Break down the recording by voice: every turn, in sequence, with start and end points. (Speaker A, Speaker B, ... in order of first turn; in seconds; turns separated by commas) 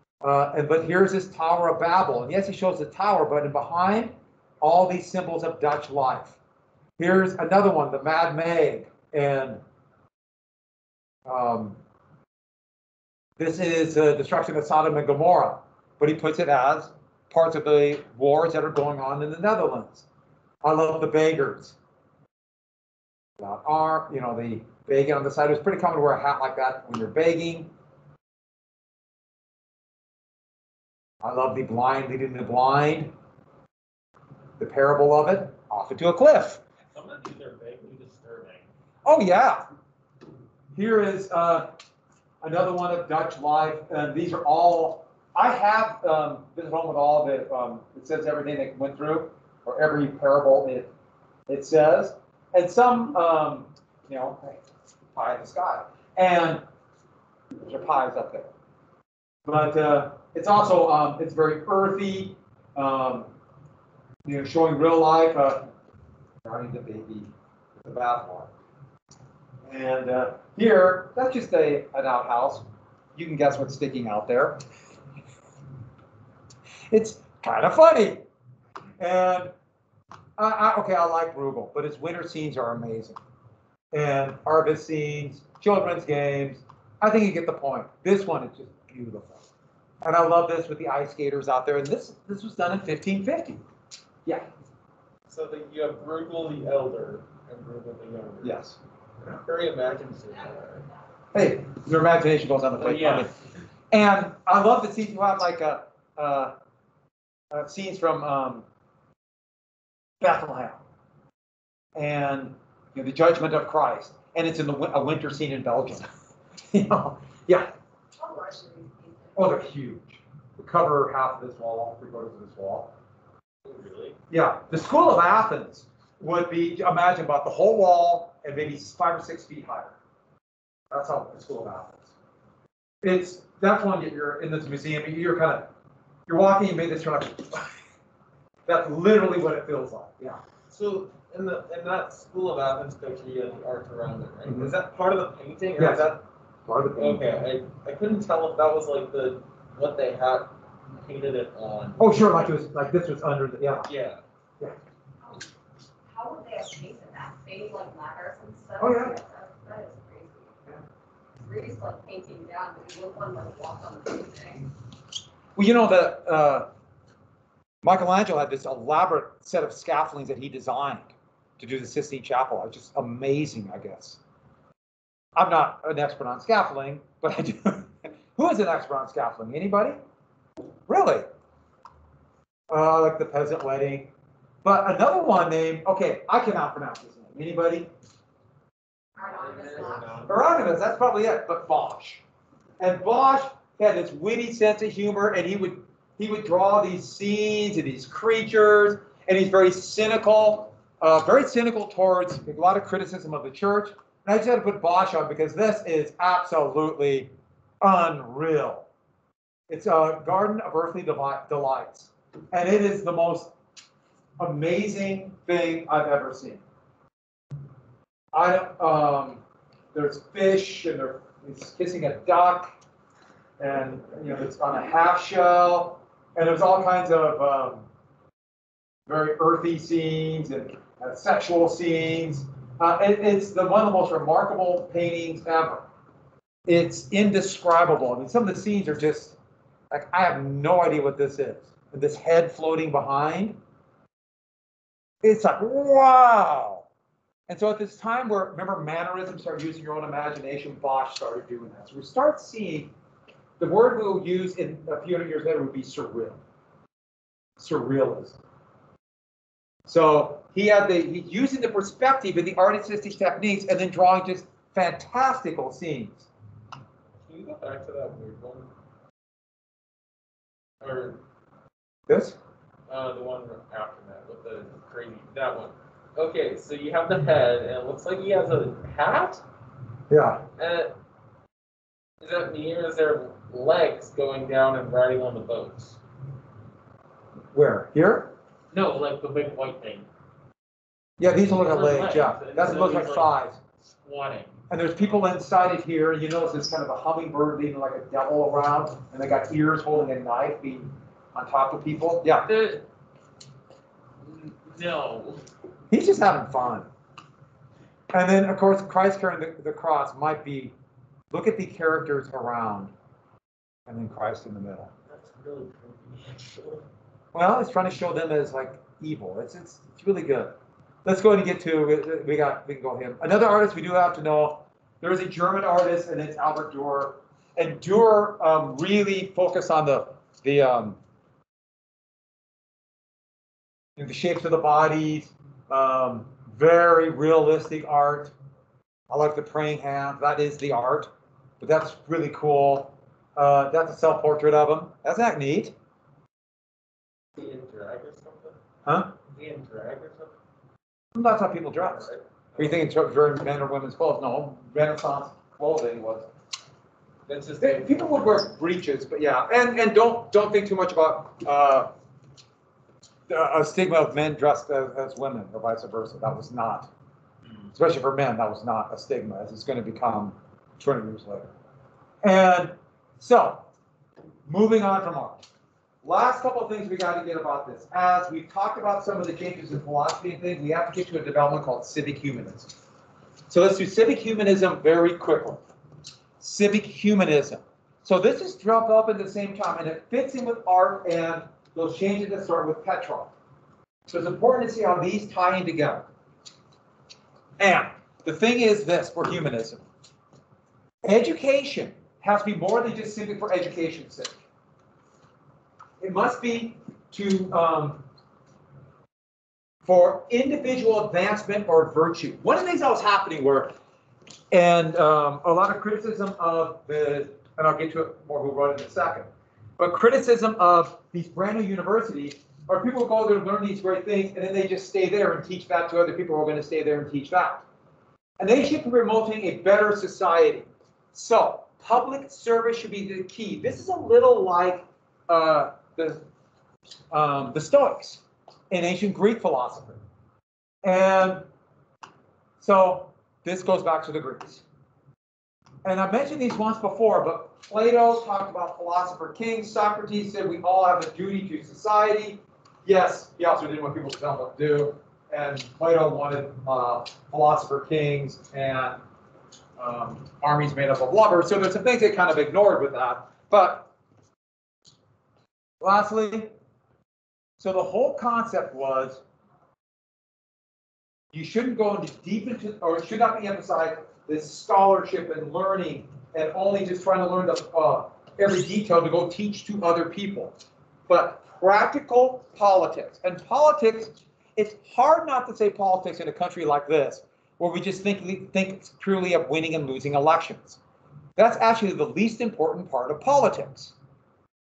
Speaker A: 0.2-6.3, Speaker A: 7.0-9.6, Speaker A: 11.3-11.8, Speaker A: 13.4-20.1, Speaker A: 20.6-21.8, Speaker A: 23.4-27.7, Speaker A: 31.2-33.1, Speaker A: 34.6-36.6, Speaker B: 36.9-38.7, Speaker A: 39.0-39.6, Speaker A: 40.7-41.7, Speaker A: 42.4-50.9, Speaker A: 51.5-54.6, Speaker A: 55.1-56.6, Speaker A: 57.6-58.5, Speaker A: 59.4-63.3, Speaker A: 64.2-65.7, Speaker A: 66.4-68.5, Speaker A: 69.7-74.6, Speaker A: 76.9-78.2, Speaker A: 79.0-79.5, Speaker A: 80.4-83.2, Speaker A: 83.9-89.4, Speaker A: 90.0-93.6, Speaker B: 95.3-98.6, Speaker A: 98.4-98.8, Speaker B: 99.2-100.9, Speaker A: 101.3-103.3, Speaker B: 102.8-103.3, Speaker A: 103.9-106.5, Speaker A: 107.5-108.6, Speaker A: 110.2-110.8, Speaker A: 111.9-116.1, Speaker A: 116.7-117.7, Speaker C: 118.2-119.4, Speaker A: 119.3-122.9, Speaker B: 123.6-124.2, Speaker A: 124.3-129.9, Speaker A: 130.9-132.0, Speaker A: 133.0-135.7, Speaker A: 136.3-137.7, Speaker A: 138.7-140.4, Speaker B: 140.7-146.2, Speaker A: 144.4-144.7, Speaker A: 145.8-146.2, Speaker A: 146.7-147.3, Speaker B: 147.0-152.5, Speaker A: 152.0-153.9, Speaker B: 153.9-154.2, Speaker C: 156.1-160.6, Speaker A: 158.8-159.2, Speaker C: 161.4-164.7, Speaker A: 165.6-166.7, Speaker A: 167.8-174.2, Speaker A: 175.3-180.0, Speaker A: 180.9-181.2, Speaker A: 182.7-184.1, Speaker A: 184.6-187.9, Speaker C: 189.2-190.2, Speaker B: 189.2-190.3, Speaker A: 190.2-192.2, Speaker A: 192.8-207.3, Speaker A: 207.8-208.9, Speaker A: 209.7-213.5, Speaker A: 214.4-216.6, Speaker A: 218.3-219.4, Speaker A: 219.9-222.7, Speaker A: 223.6-227.8, Speaker A: 229.1-235.8, Speaker A: 236.7-239.3, Speaker A: 239.9-243.6, Speaker A: 245.2-246.8, Speaker A: 247.5-252.9, Speaker A: 253.6-256.4, Speaker A: 257.6-258.4, Speaker A: 259.9-266.3, Speaker B: 267.2-268.7, Speaker B: 270.8-271.2, Speaker A: 272.1-272.4, Speaker B: 272.9-279.4, Speaker A: 280.1-280.4, Speaker B: 280.6-280.9, Speaker B: 282.2-286.0, Speaker A: 287.5-288.3, Speaker B: 288.7-290.1, Speaker A: 291.2-293.6, Speaker B: 291.5-294.6, Speaker A: 294.7-302.5, Speaker B: 302.5-302.9, Speaker B: 304.2-305.4, Speaker A: 305.9-306.9, Speaker A: 308.1-310.7, Speaker A: 311.3-312.9, Speaker A: 313.9-314.9, Speaker B: 315.1-316.8, Speaker A: 317.3-320.5, Speaker A: 321.0-331.0, Speaker A: 334.0-338.3, Speaker A: 339.1-345.7, Speaker B: 347.4-348.6, Speaker A: 348.8-349.1, Speaker B: 349.3-350.3, Speaker A: 351.1-356.3, Speaker B: 351.9-352.7, Speaker B: 357.3-358.2, Speaker A: 357.6-361.9, Speaker A: 363.3-366.9, Speaker A: 367.7-371.5, Speaker A: 372.2-373.6, Speaker A: 374.5-375.4, Speaker A: 376.0-382.7, Speaker A: 383.5-385.6, Speaker A: 386.4-393.3, Speaker A: 394.1-396.1, Speaker A: 397.6-399.8, Speaker A: 401.0-404.4, Speaker A: 406.0-408.0, Speaker A: 409.8-413.7, Speaker A: 414.5-427.6, Speaker A: 428.4-436.2, Speaker A: 437.1-440.0, Speaker A: 440.8-441.4, Speaker A: 442.6-444.6, Speaker A: 445.8-459.0, Speaker A: 459.8-463.9, Speaker A: 465.8-466.5, Speaker A: 467.6-469.2, Speaker A: 471.3-480.6, Speaker A: 481.1-490.8, Speaker A: 491.4-493.9